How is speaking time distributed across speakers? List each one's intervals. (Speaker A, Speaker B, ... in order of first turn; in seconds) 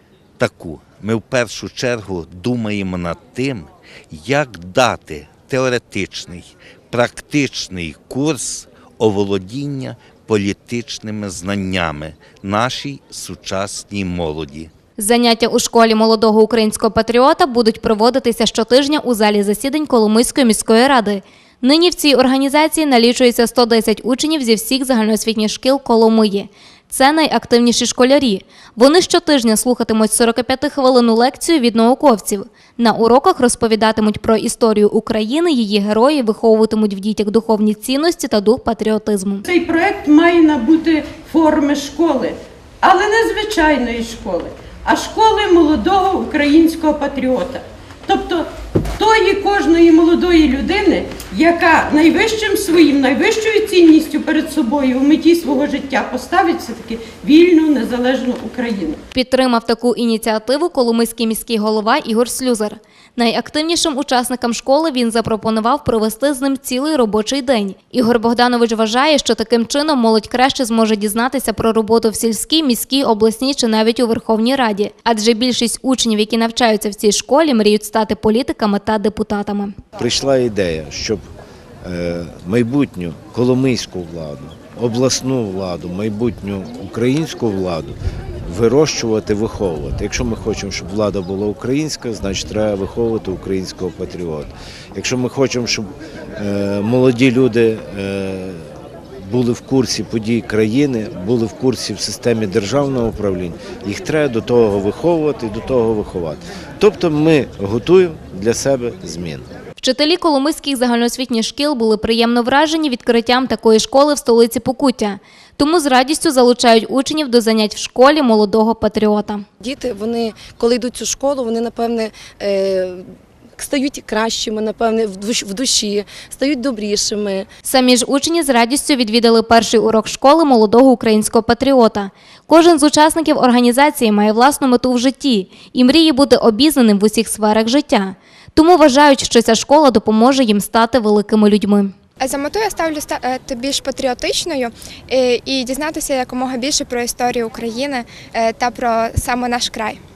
Speaker A: 0.4-14.7
Speaker B: 15.0-39.5, 59.1-79.8, 109.8-119.4, 127.7-141.9
Speaker C: 39.5-59.0
Speaker D: 80.0-81.2, 81.8-109.5
Speaker E: 119.6-127.5
Speaker F: 142.2-150.0